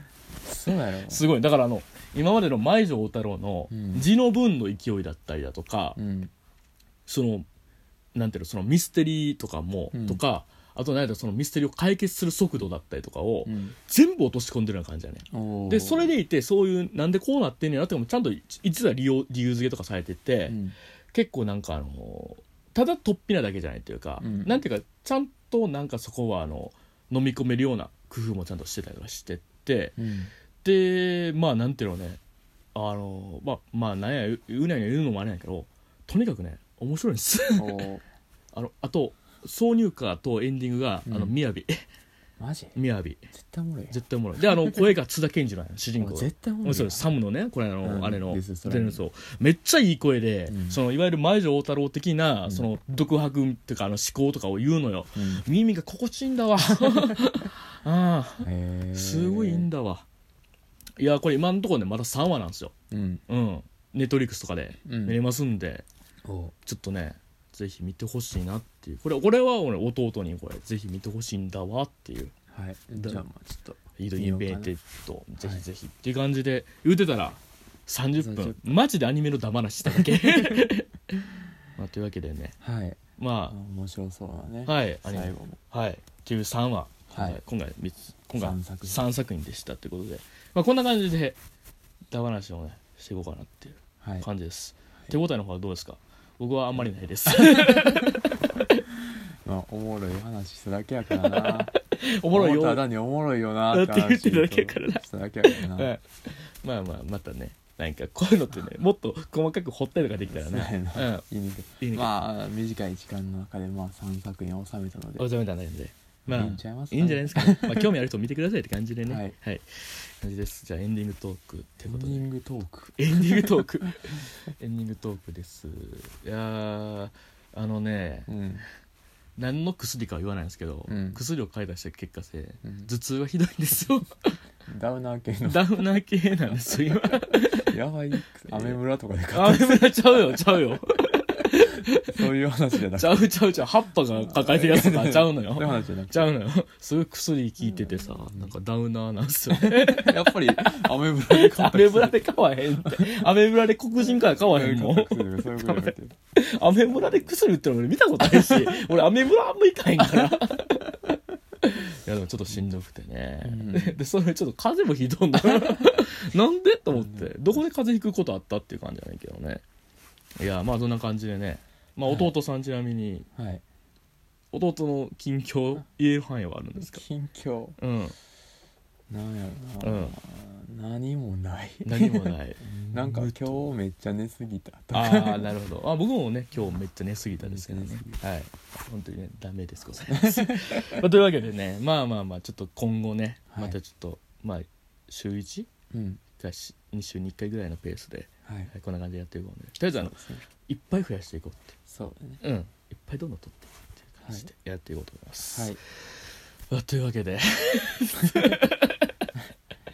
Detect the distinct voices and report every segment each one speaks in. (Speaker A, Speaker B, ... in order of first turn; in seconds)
Speaker A: 0.5-1.2, 3.7-4.1, 6.0-6.3, 9.9-10.2, 13.5-13.8, 15.3-16.1, 20.5-20.8, 24.2-24.6, 30.0-30.3, 37.5-38.0, 41.1-41.4, 42.4-42.8, 43.3-44.0, 44.6-44.9, 46.0-47.1, 47.8-49.0, 50.5-50.8, 55.1-55.4, 56.8-57.1, 58.4-59.7, 62.9-63.2, 64.8-65.2, 66.2-66.5, 72.5-74.7, 78.2-78.8, 79.8-80.7, 82.6-85.6, 87.1-87.4, 88.3-89.0, 94.0-94.3, 97.3-98.3, 99.0-101.7, 102.3-105.9, 110.3-115.3, 116.3-117.9, 119.1-119.4, 121.9-123.6, 128.3-128.7, 130.9-131.2, 132.6-132.9, 134.7-135.7, 137.7-139.9, 141.6-143.3, 144.2-146.3, 147.8-148.5, 149.5-152.3, 152.8-153.3, 154.1-156.2, 158.3-158.8, 160.1-160.4, 163.4-164.0, 165.4-166.0, 166.9-167.6, 172.1-172.3, 173.4-173.6, 176.8-177.8, 179.1-185.5, 187.4-188.2, 190.1-191.1, 193.5-193.8, 195.9-196.2, 198.4-198.7, 200.0-200.4, 201.9-202.4, 205.5-205.8
Speaker B: 1.1-6.0, 7.1-7.5, 8.1-20.6, 21.1-30.0, 30.6-32.2, 32.8-37.9, 38.5-41.9, 42.8-43.3, 43.9-60.1, 61.0-62.7, 63.3-65.9, 66.6-72.3, 73.0-73.2, 74.0-81.3, 81.8-82.6, 83.2-83.5, 84.7-91.4, 92.1-98.8, 101.2-102.8, 103.7-111.2, 111.8-112.1, 115.2-122.3, 123.0-128.3, 129.4-134.4, 135.4-137.8, 138.5-138.8, 139.3-142.2, 142.9-169.6, 170.4-173.3, 174.5-177.0, 177.8-178.1, 179.8-180.1, 181.8-183.6, 184.9-195.7, 196.4-201.8, 202.4-209.4